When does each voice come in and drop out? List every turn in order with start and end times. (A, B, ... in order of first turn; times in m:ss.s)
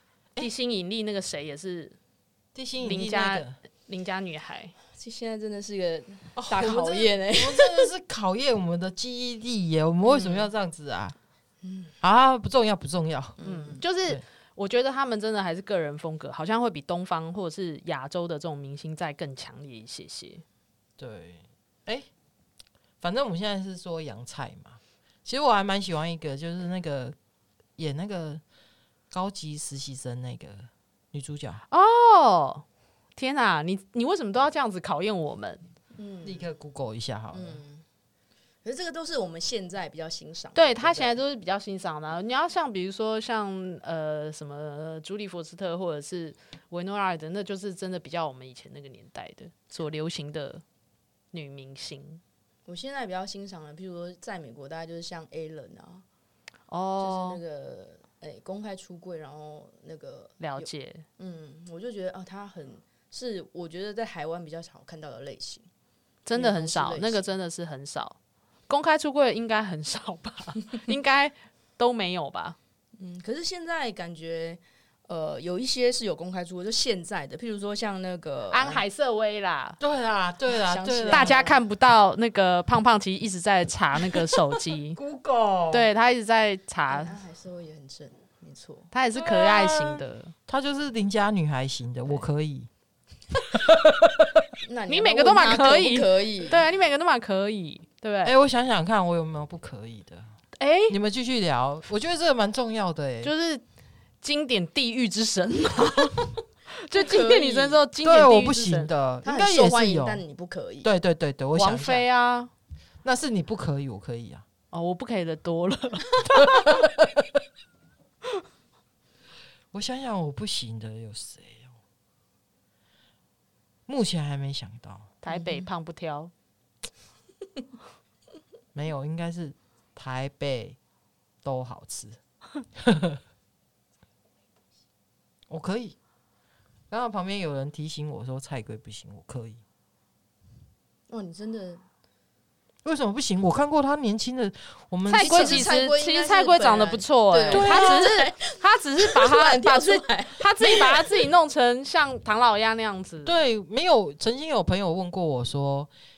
0:00.4-0:02.0 A
0:02.6-0:03.6 B
0:02.8-0:04.8 A
0:04.9-0:07.9 C
0:06.4-0:11.2 B
0:10.1-0:10.4 C
0:11.6-0:11.9 C
0:12.0-0:13.4 B
0:13.4-0:13.8 C
0:13.4-0:20.4 A
0:21.0-0:22.1 B
0:23.0-0:27.2 B
0:27.8-0:28.4 B
0:29.1-0:31.6 B
0:31.7-0:32.6 A
0:33.2-0:35.6 A
0:36.0-0:36.5 C
0:36.2-0:37.6 B
0:37.3-0:37.8 C
0:38.6-0:41.2 C
0:40.6-0:50.6 A
0:51.3-0:52.2 A
0:52.7-0:56.0 C
0:56.7-0:57.4 A
0:57.0-1:05.7 C
1:00.4-1:01.0 A
1:06.3-1:08.2 A
1:06.4-1:07.3 C
1:08.7-1:12.6 A
1:13.0-1:18.8 C
1:18.5-1:19.8 A
1:19.8-1:21.4 B
1:20.6-1:21.6 C
1:21.1-1:25.0 A
1:25.0-1:25.9 B
1:25.7-1:27.2 A
1:26.9-1:28.9 C
1:28.9-1:30.3 A
1:29.1-1:32.7 B
1:33.5-1:34.5 B
1:34.6-1:36.7 C
1:34.9-1:38.3 A
1:38.2-1:40.3 B
1:40.6-1:41.0 A
1:40.9-1:43.3 B
1:43.2-1:43.6 A
1:44.2-1:48.9 A
1:46.9-1:47.8 C
1:48.0-1:50.2 B
1:49.2-1:50.9 C
1:50.8-1:52.1 B
1:51.6-1:52.5 A
1:53.0-1:54.4 B
1:54.7-1:56.8 A
1:56.4-1:57.1 B
1:59.7-2:01.8 B
2:03.9-2:05.1 B
2:05.2-2:06.3 A
2:05.3-2:05.7 C
2:08.8-2:10.8 B
2:11.4-2:12.2 B
2:12.8-2:13.2 B
2:15.5-2:16.0 B
2:16.9-2:19.6 B
2:21.1-2:21.8 C
2:22.8-2:25.7 B
2:25.1-2:33.4 A
2:25.2-2:31.3 C
2:27.5-2:28.1 B
2:33.2-2:35.9 B